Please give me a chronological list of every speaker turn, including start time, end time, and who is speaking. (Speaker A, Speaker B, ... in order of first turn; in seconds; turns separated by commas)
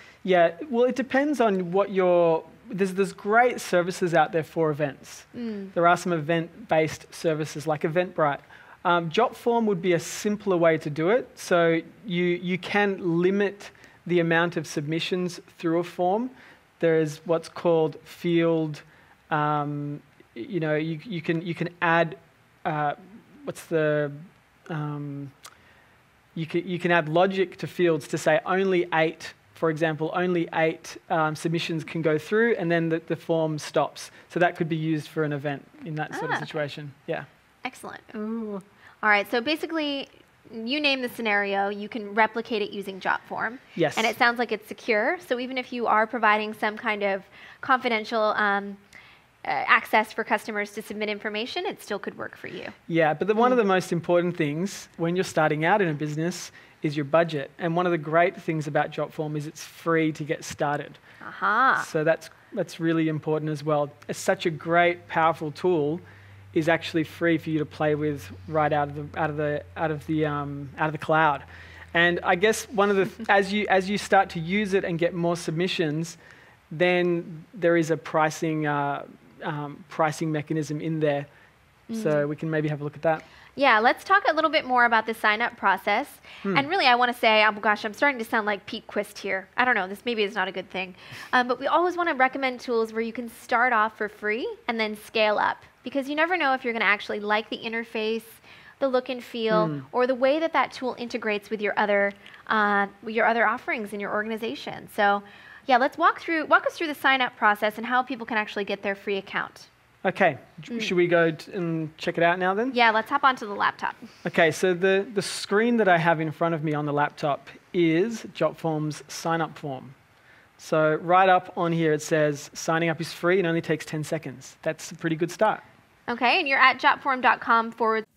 Speaker A: 0.2-25.3, Speaker B: 5.3-5.7, Speaker A: 26.3-37.2, Speaker B: 36.1-36.6, Speaker B: 37.6-48.8, Speaker A: 43.8-44.1, Speaker B: 49.4-52.7, Speaker A: 52.9-61.0, Speaker B: 61.2-61.9, Speaker A: 61.8-76.2, Speaker A: 76.7-81.3, Speaker B: 81.9-82.3, Speaker A: 81.9-83.2, Speaker B: 83.5-109.7, Speaker A: 99.5-99.8, Speaker A: 110.0-112.8, Speaker B: 112.7-114.0, Speaker A: 114.2-119.9, Speaker A: 120.6-125.6, Speaker B: 126.1-128.1